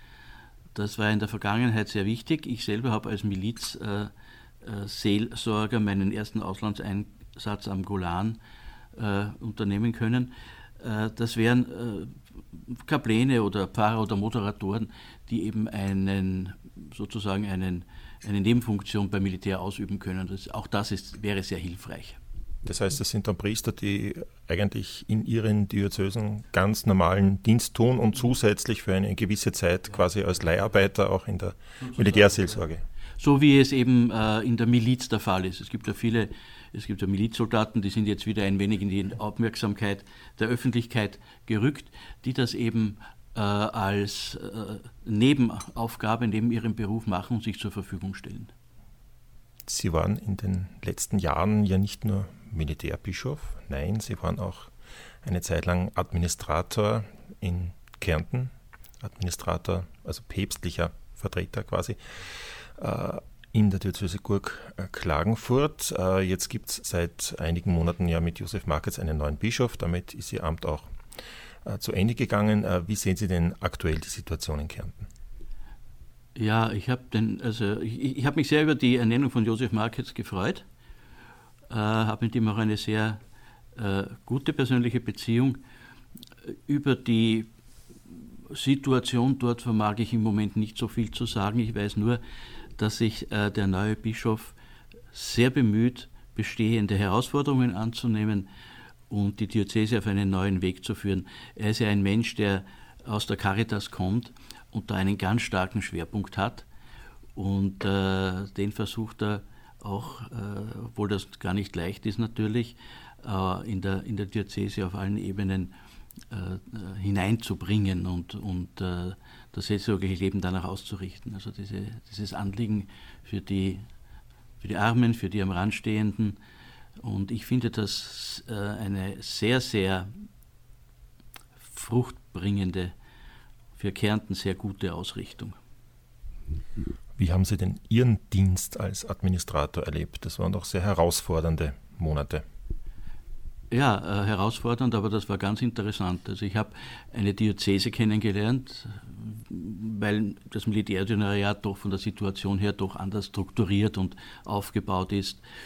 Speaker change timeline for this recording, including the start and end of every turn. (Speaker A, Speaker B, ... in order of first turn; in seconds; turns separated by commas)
Speaker A: 0.7-8.4, Speaker A: 8.9-12.2, Speaker A: 12.7-22.2, Speaker B: 22.6-32.8, Speaker A: 31.8-32.4, Speaker A: 33.2-48.5, Speaker B: 49.7-54.7, Speaker B: 55.2-70.9, Speaker B: 71.6-75.1, Speaker A: 76.3-80.6, Speaker A: 81.7-83.2, Speaker A: 83.8-85.6, Speaker A: 86.5-87.5, Speaker A: 88.5-92.2, Speaker A: 92.8-94.5, Speaker A: 95.1-98.5, Speaker A: 99.1-106.6, Speaker A: 107.3-115.7, Speaker A: 116.3-123.8, Speaker A: 124.6-126.4, Speaker A: 127.0-130.1, Speaker A: 131.6-132.9, Speaker A: 133.8-135.6, Speaker B: 137.2-142.4, Speaker A: 143.7-155.4